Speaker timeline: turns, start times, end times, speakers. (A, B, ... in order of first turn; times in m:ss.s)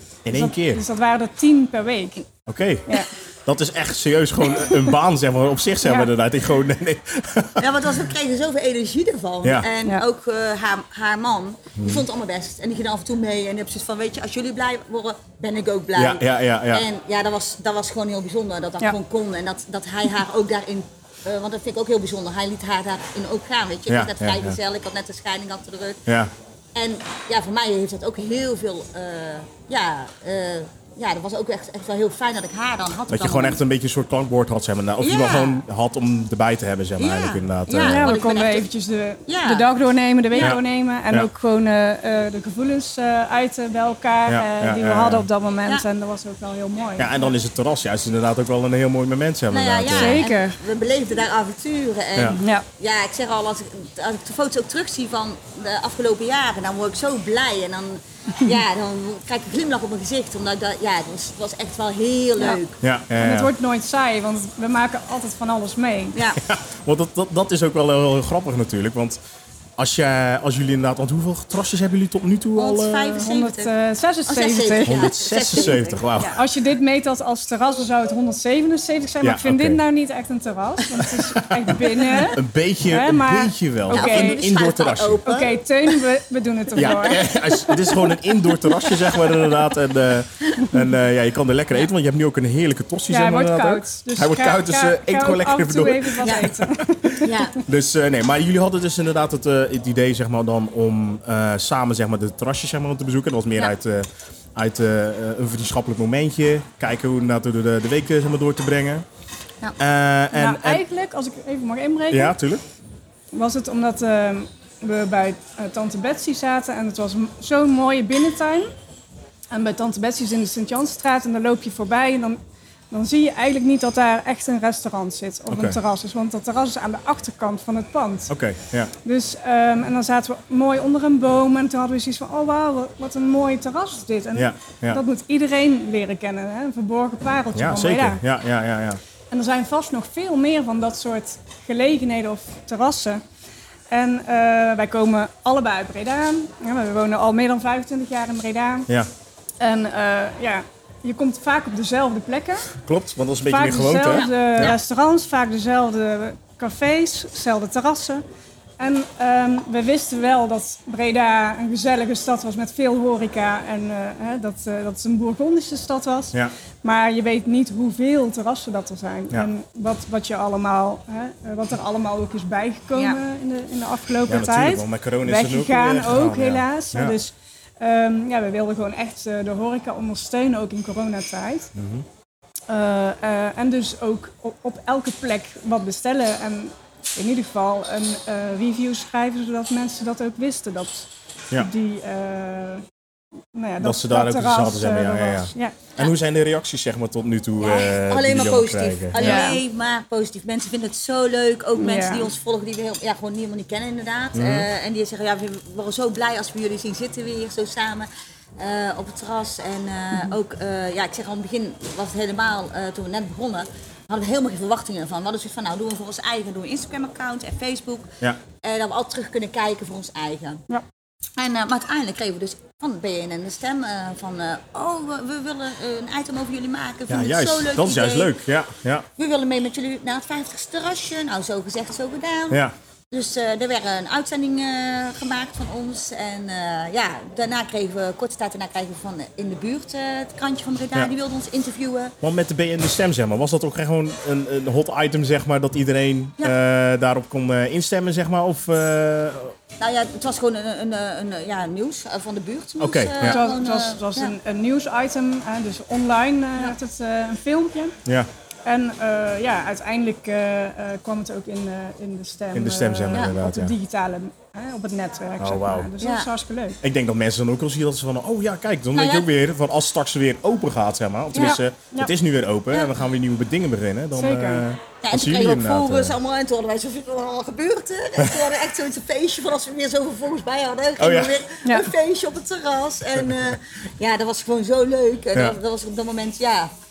0:00.2-0:00.8 A
0:00.3-0:02.2 B
0:02.5-0:08.1 A
0:04.5-0:04.9 B
0:05.8-0:06.1 B
0:07.6-0:26.0 C
0:09.4-0:09.7 A
0:11.8-0:12.0 A
0:16.0-0:16.9 A
0:23.9-0:24.6 A
0:26.0-0:26.3 A
0:26.7-0:33.6 C
0:33.1-0:38.1 A
0:35.0-0:35.6 C
0:37.0-0:38.7 C
0:37.8-0:47.3 B
0:39.3-0:39.7 C
0:40.3-0:40.6 C
0:40.4-0:41.3 A
0:44.3-0:45.2 A
0:47.0-0:50.2 A
0:49.5-1:02.8 C
0:49.9-0:50.6 B
0:52.2-0:52.4 A
0:52.4-0:52.6 B
1:02.8-1:03.5 A
1:03.2-1:06.2 B
1:06.1-1:06.4 C
1:06.4-1:09.2 A
1:09.8-1:13.2 A
1:12.6-1:13.7 C
1:13.2-1:15.2 B
1:14.3-1:16.0 C
1:14.8-1:16.4 A
1:16.2-1:24.4 B
1:19.2-1:19.8 A
1:21.0-1:25.2 A
1:23.9-1:25.9 C
1:25.2-1:28.1 B
1:26.7-1:49.0 A
1:27.1-1:27.4 C
1:28.8-1:29.3 C
1:33.1-1:37.3 B
1:37.2-1:37.6 C
1:49.8-1:50.8 A
1:50.3-1:52.4 B
1:52.1-1:52.6 A
1:53.3-1:58.7 B
1:59.5-2:02.4 B
2:02.9-2:08.3 B
2:05.5-2:05.8 A
2:08.3-2:08.9 A
2:09.0-2:18.2 B
2:14.3-2:15.0 A
2:17.5-2:19.0 A
2:19.3-2:23.2 B
2:23.9-2:28.9 B
2:29.6-2:32.7 B
2:32.8-2:34.8 A
2:33.5-2:38.2 B
2:38.8-3:01.7 B
2:52.9-2:53.2 C
2:54.3-2:57.2 A
3:01.7-3:02.0 A
3:02.7-3:12.8 B
3:13.5-3:15.7 B
3:13.8-3:19.5 A
3:17.6-3:40.6 C
3:19.2-3:19.6 B
3:21.8-3:22.3 B
3:24.3-3:24.7 A
3:41.4-3:48.3 C
3:47.1-3:49.1 A
3:49.2-4:02.1 C
4:02.2-4:09.5 A
4:09.8-4:14.3 C
4:12.8-4:13.4 A
4:13.2-4:18.0 B
4:18.6-4:26.8 B
4:22.5-4:23.7 A
4:25.4-4:25.9 A
4:26.0-4:26.3 C
4:26.8-4:36.1 A
4:28.9-4:29.3 C
4:31.3-4:31.6 C
4:31.4-4:32.1 B
4:34.1-4:34.6 B
4:35.0-4:46.7 C
4:41.0-4:41.4 A
4:41.6-4:41.9 B
4:43.2-4:43.5 A
4:45.3-4:45.6 A